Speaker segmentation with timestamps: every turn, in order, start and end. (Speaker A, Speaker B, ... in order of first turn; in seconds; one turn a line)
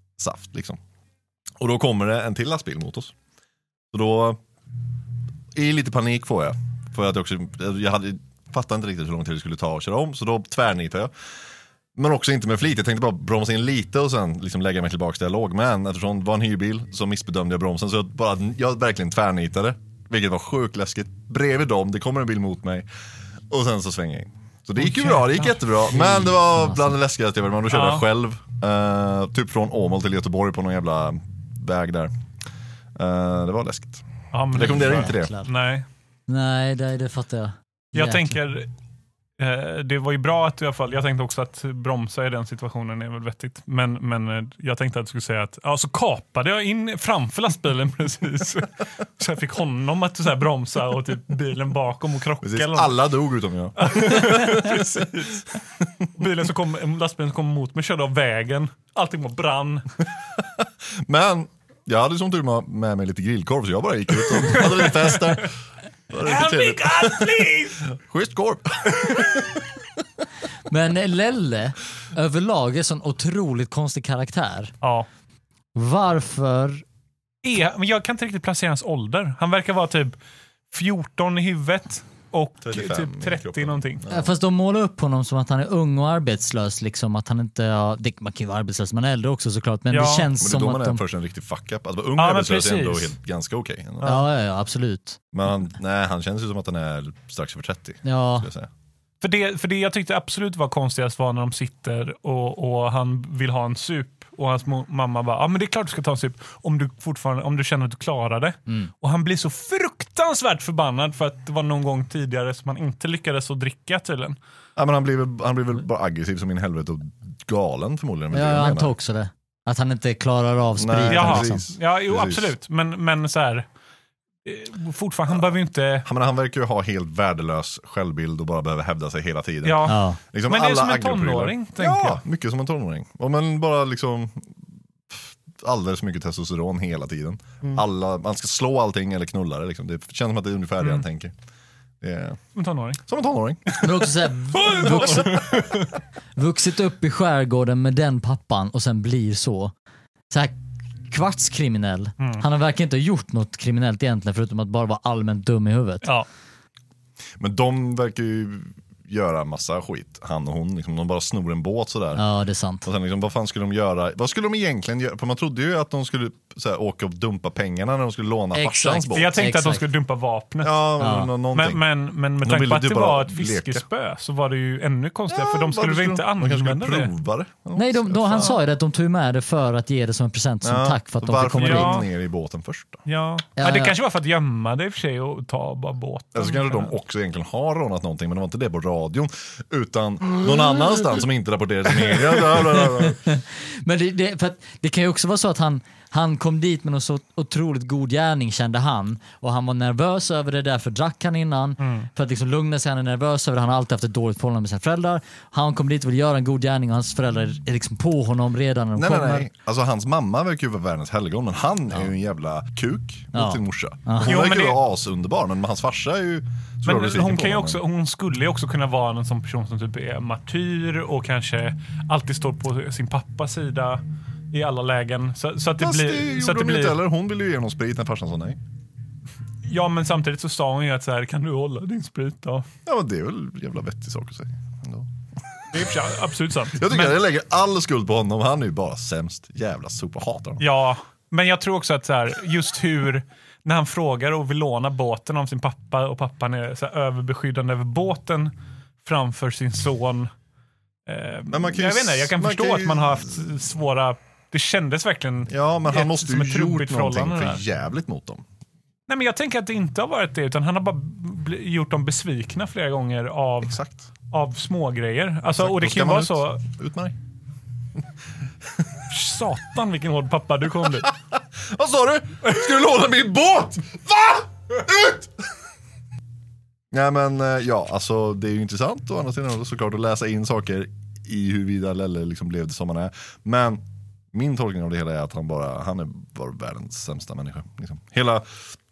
Speaker A: 0.2-0.8
Speaker A: 1.6-3.1
Speaker A: 3.9-4.4
Speaker A: 5.5-11.1
Speaker A: 12.0-22.9
Speaker A: 23.5-32.1
Speaker B: 24.8-25.6
Speaker C: 25.9-26.9
Speaker B: 27.7-28.1
Speaker A: 33.0-35.3
Speaker B: 34.3-35.9
Speaker C: 34.6-35.5
Speaker C: 36.3-38.4
Speaker B: 38.0-38.7
Speaker B: 39.4-53.0
Speaker A: 52.4-55.2
Speaker B: 53.8-55.6
Speaker A: 55.8-56.1
Speaker B: 56.1-59.9
Speaker A: 60.6-65.5
Speaker B: 64.5-65.4
Speaker A: 66.1-69.8
Speaker B: 66.2-67.8
Speaker C: 70.7-74.7
Speaker B: 74.8-75.1
Speaker C: 75.8-76.8
Speaker B: 77.4-80.2
Speaker B: 80.7-84.0
Speaker A: 82.6-84.3
Speaker C: 84.1-91.0
Speaker B: 89.9-90.3
Speaker A: 90.4-94.2
Speaker B: 92.2-93.1
Speaker C: 94.0-95.2
Speaker A: 95.3-98.7
Speaker C: 98.0-98.5
Speaker B: 99.2-114.4
Speaker A: 114.8-118.9
Speaker C: 118.3-121.7
Speaker A: 120.8-122.5
Speaker B: 121.1-123.7
Speaker B: 124.4-126.1
Speaker A: 126.0-134.5
Speaker B: 129.6-132.2
Speaker C: 129.9-130.2
Speaker A: 135.1-141.3
Speaker A: 142.0-142.4
Speaker B: 142.6-143.0
Speaker A: 143.1-144.1
Speaker C: 143.8-145.5
Speaker B: 144.5-145.9
Speaker A: 144.8-145.8
Speaker C: 146.4-149.7
Speaker C: 150.3-156.1
Speaker A: 157.4-162.2
Speaker C: 162.2-162.9
Speaker A: 162.8-169.4
Speaker C: 168.5-169.8
Speaker B: 169.1-170.8
Speaker A: 170.6-171.8
Speaker C: 171.0-171.3
Speaker B: 171.5-177.1
Speaker A: 172.4-173.8
Speaker A: 175.3-178.6
Speaker C: 177.8-182.0
Speaker A: 180.6-183.0
Speaker B: 181.6-182.1
Speaker B: 183.1-186.9
Speaker C: 183.6-184.0
Speaker A: 186.3-193.2
Speaker C: 192.5-209.5
Speaker B: 201.8-202.1
Speaker A: 209.0-217.8
Speaker C: 213.3-214.3
Speaker B: 214.2-214.8
Speaker B: 216.9-227.0
Speaker A: 225.8-228.6
Speaker B: 229.7-232.7
Speaker A: 232.9-235.1
Speaker B: 235.7-237.1
Speaker A: 236.7-240.7
Speaker B: 240.6-250.3
Speaker B: 251.1-257.6
Speaker A: 251.5-253.5
Speaker A: 255.5-258.4
Speaker B: 259.1-263.8
Speaker A: 263.6-264.1
Speaker B: 264.3-266.6
Speaker A: 265.6-267.2
Speaker B: 269.1-271.1
Speaker A: 271.0-275.4
Speaker A: 276.9-283.8
Speaker A: 284.3-288.7